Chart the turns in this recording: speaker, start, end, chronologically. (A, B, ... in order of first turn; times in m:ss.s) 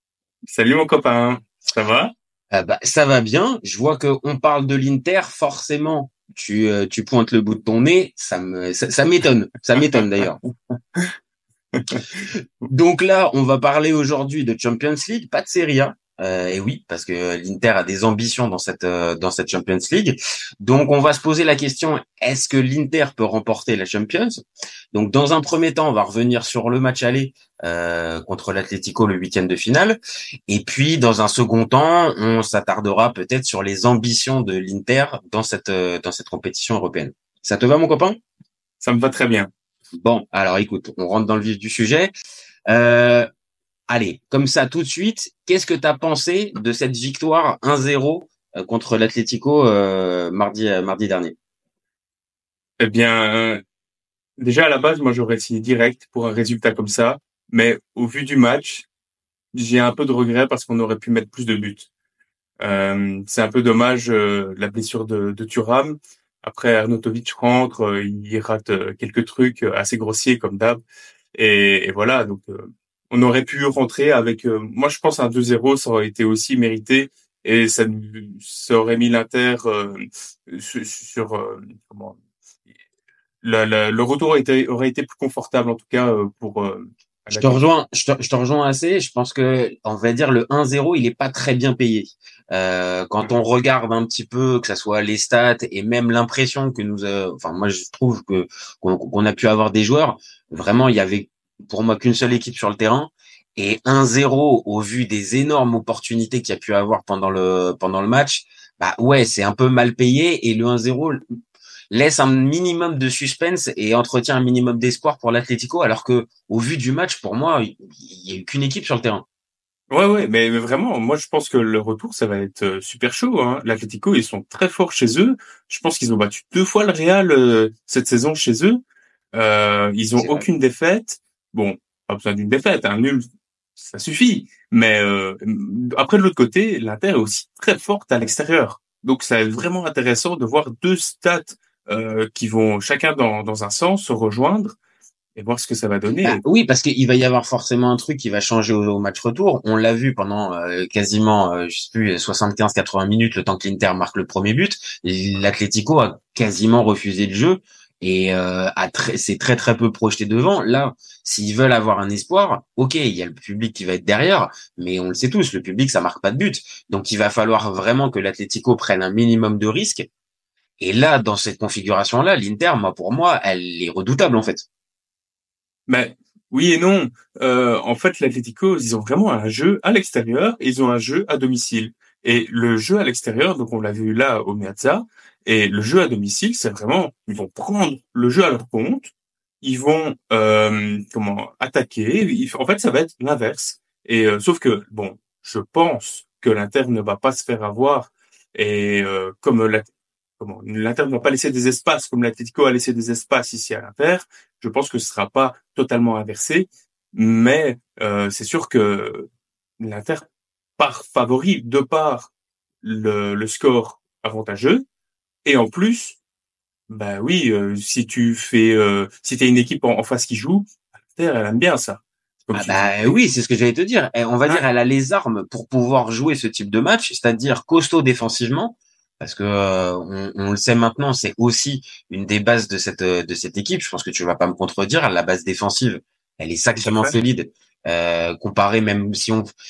0:00.5-0:02.1 A
0:02.5-0:10.4 B
0:09.8-0:10.2 A
0:11.7-0:12.7 A
0:12.7-0:24.4 B
0:24.9-0:38.2 B
0:38.8-0:39.5 A
0:40.0-0:42.1 B
0:42.7-0:43.3 B
0:43.9-0:51.4 B
0:52.8-0:53.6 A
0:54.4-0:58.9 A
0:59.5-1:01.9 A
1:02.6-1:10.8 A
1:11.3-1:22.2 A
1:23.4-1:27.6 A
1:27.3-1:51.2 B
1:51.9-1:59.2 B
1:59.9-2:08.8 A
2:09.3-2:13.3 A
2:10.2-2:10.5 B
2:13.8-2:24.8 A
2:25.4-2:26.4 A
2:26.2-2:50.1 B
2:50.8-2:54.6 B
2:55.9-3:09.1 A
3:09.6-3:19.9 A
3:20.4-3:29.3 A
3:29.8-3:30.3 A
3:30.8-3:32.3 A
3:32.8-3:34.8 A
3:35.4-3:36.2 A
3:36.9-3:43.2 A
3:42.6-3:59.5 B
3:56.8-3:57.1 A